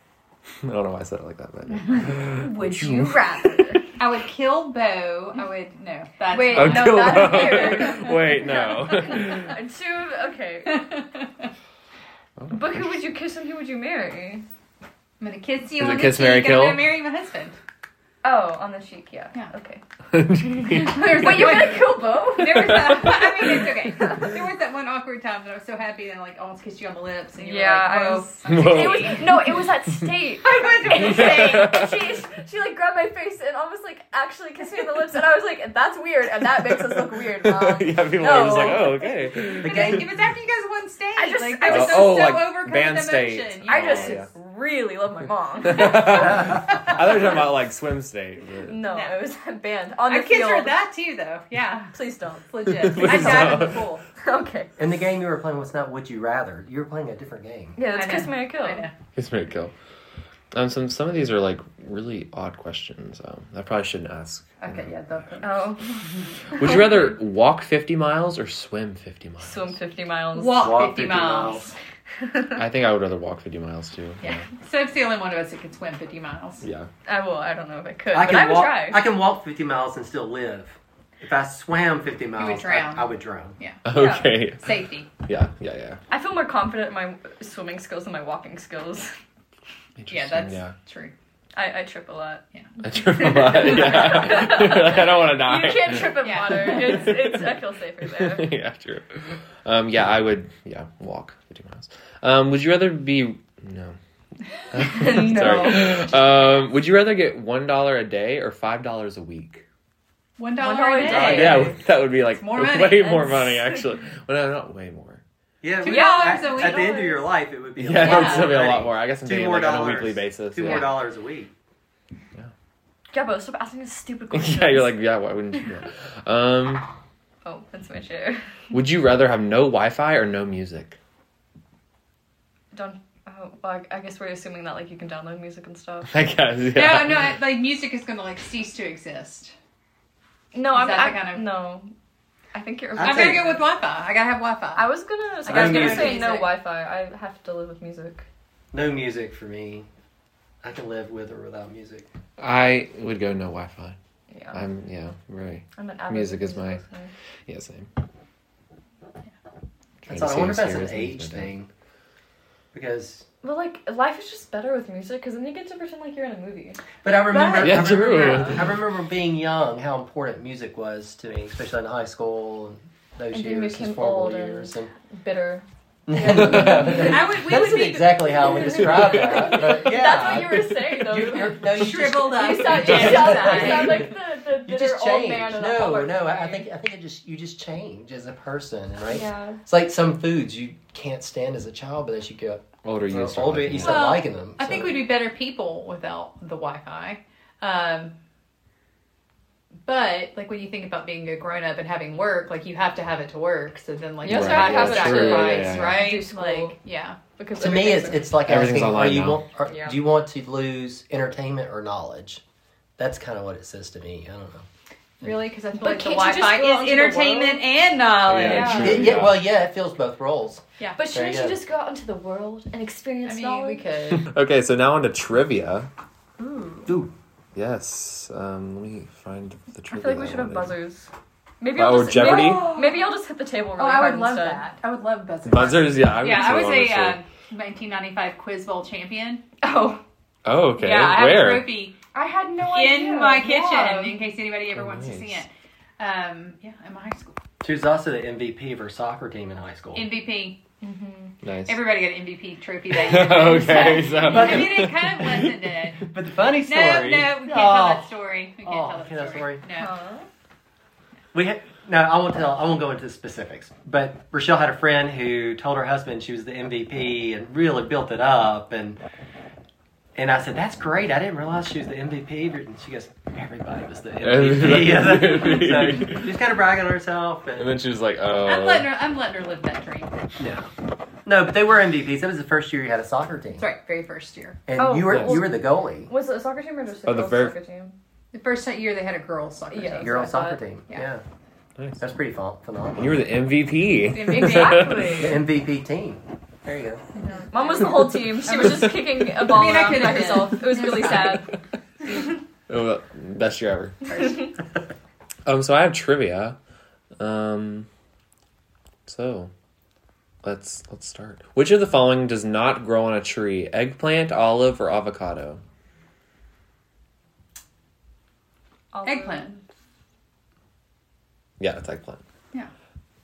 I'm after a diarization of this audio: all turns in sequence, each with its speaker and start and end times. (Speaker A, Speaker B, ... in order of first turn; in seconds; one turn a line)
Speaker A: 0.6-3.8
Speaker B: 2.2-3.9
Speaker C: 4.0-8.1
Speaker B: 6.3-10.9
Speaker A: 6.5-9.6
Speaker C: 10.7-11.5
Speaker A: 12.4-12.9
Speaker B: 12.5-14.4
Speaker C: 15.2-17.6
Speaker A: 15.8-16.9
Speaker B: 18.2-19.8
Speaker A: 20.1-21.5
Speaker B: 20.6-24.3
Speaker C: 20.7-29.6
Speaker A: 22.5-23.7
Speaker B: 27.4-39.1
Speaker A: 28.4-30.1
Speaker C: 30.4-31.8
Speaker A: 30.9-32.0
Speaker A: 36.6-40.0
Speaker C: 39.6-44.2
Speaker D: 39.6-40.1
Speaker B: 41.2-42.4
Speaker A: 41.7-44.3
Speaker B: 43.7-46.5
Speaker A: 45.6-48.8
Speaker B: 48.6-50.8
Speaker C: 48.8-49.2
Speaker C: 50.1-52.0
Speaker B: 51.9-54.7
Speaker C: 52.5-54.0
Speaker A: 52.7-53.8
Speaker D: 54.8-57.8
Speaker B: 57.8-58.9
Speaker C: 57.9-58.9
Speaker A: 59.2-59.7
Speaker A: 60.5-64.9
Speaker C: 64.6-66.3
Speaker B: 65.4-67.1
Speaker A: 66.5-69.8
Speaker B: 69.4-70.8
Speaker C: 70.3-71.8
Speaker D: 70.6-71.7
Speaker B: 72.2-72.6
Speaker A: 72.6-74.4
Speaker C: 74.2-76.7
Speaker A: 76.6-76.9
Speaker B: 77.0-79.0
Speaker D: 78.1-83.6
Speaker C: 82.4-83.8
Speaker A: 83.8-86.0
Speaker B: 83.9-84.3
Speaker C: 84.6-85.1
Speaker B: 86.1-89.2
Speaker A: 90.0-90.8
Speaker C: 90.1-91.1
Speaker B: 91.5-92.4
Speaker A: 92.8-96.2
Speaker B: 93.1-98.5
Speaker C: 96.2-97.1
Speaker A: 96.9-97.4
Speaker A: 98.0-104.0
Speaker A: 104.7-109.6
Speaker B: 104.7-106.1
Speaker C: 105.1-106.0
Speaker C: 110.4-111.7
Speaker B: 110.6-111.8
Speaker A: 111.0-115.2
Speaker C: 112.3-113.2
Speaker B: 112.8-113.9
Speaker D: 115.6-121.5
Speaker C: 115.8-117.0
Speaker B: 115.8-117.3
Speaker A: 117.8-120.9
Speaker C: 118.0-118.5
Speaker B: 123.1-124.9
Speaker A: 124.3-126.9
Speaker B: 127.4-128.4
Speaker A: 128.7-131.0
Speaker B: 132.7-136.2
Speaker A: 136.1-137.3
Speaker C: 136.7-139.5
Speaker B: 140.5-141.9
Speaker C: 140.7-141.5
Speaker B: 142.5-143.6
Speaker D: 143.0-143.3
Speaker C: 143.0-144.9
Speaker B: 144.8-148.3
Speaker C: 145.4-146.5
Speaker D: 145.5-146.3
Speaker D: 148.7-149.9
Speaker D: 150.6-152.1
Speaker A: 152.4-154.0
Speaker B: 154.3-154.6
Speaker A: 154.5-156.8
Speaker B: 155.8-157.1
Speaker A: 157.5-157.9
Speaker A: 160.1-161.5
Speaker D: 160.1-161.7
Speaker D: 162.7-163.3
Speaker B: 163.4-168.7
Speaker D: 167.0-174.9
Speaker A: 167.6-168.7
Speaker B: 173.3-177.8
Speaker D: 176.1-184.1
Speaker C: 176.7-179.3
Speaker B: 178.4-186.7
Speaker A: 179.1-179.5
Speaker C: 181.4-184.1
Speaker D: 184.7-195.1
Speaker B: 189.1-189.6
Speaker A: 192.8-194.1
Speaker C: 193.8-198.1
Speaker C: 199.9-207.2
Speaker B: 204.2-206.8
Speaker A: 204.2-206.1
Speaker B: 207.4-208.4
Speaker D: 207.6-212.4
Speaker A: 208.4-209.4
Speaker B: 209.7-210.0
Speaker D: 213.0-214.7
Speaker C: 215.2-219.1
Speaker B: 215.8-217.7
Speaker A: 218.3-219.4
Speaker B: 218.4-219.2
Speaker D: 218.5-221.6
Speaker C: 220.8-221.0
Speaker B: 221.0-223.8
Speaker C: 223.2-224.3
Speaker A: 224.2-225.9
Speaker B: 226.4-226.9
Speaker D: 226.9-227.1
Speaker A: 227.6-230.7
Speaker B: 229.9-231.1
Speaker B: 231.6-234.7
Speaker A: 231.8-232.7
Speaker C: 232.1-233.2
Speaker C: 233.8-239.4
Speaker A: 235.5-237.2
Speaker B: 239.6-240.0
Speaker A: 240.4-241.8
Speaker C: 240.8-242.0
Speaker B: 242.1-244.2
Speaker C: 242.6-247.4
Speaker A: 244.8-245.4
Speaker D: 247.6-250.1
Speaker C: 249.9-250.6
Speaker B: 250.8-251.3
Speaker A: 251.4-251.8
Speaker C: 251.7-256.1
Speaker A: 252.9-255.6
Speaker B: 253.6-254.5
Speaker D: 254.3-254.7
Speaker D: 256.1-258.1
Speaker C: 256.6-259.9
Speaker D: 258.6-259.6
Speaker B: 259.8-260.3
Speaker D: 261.3-269.0
Speaker D: 270.2-277.8
Speaker A: 274.2-276.3
Speaker A: 277.6-278.9
Speaker C: 278.3-280.1
Speaker D: 280.4-280.7
Speaker D: 281.2-283.7
Speaker C: 283.6-284.6
Speaker D: 284.7-286.1
Speaker B: 284.8-287.9
Speaker A: 285.1-285.5
Speaker A: 287.1-287.6
Speaker C: 288.3-291.1
Speaker B: 289.7-290.6
Speaker D: 290.0-291.2
Speaker D: 292.0-293.2
Speaker A: 293.0-295.3
Speaker C: 294.1-295.2
Speaker B: 294.3-295.4
Speaker D: 295.1-297.0
Speaker C: 297.1-301.5
Speaker B: 297.5-301.5
Speaker A: 302.7-304.1
Speaker C: 304.1-304.4
Speaker A: 305.5-306.6
Speaker A: 307.2-307.9
Speaker A: 309.1-309.5
Speaker A: 310.4-315.6
Speaker B: 318.9-319.5
Speaker C: 319.0-319.6
Speaker A: 321.6-322.2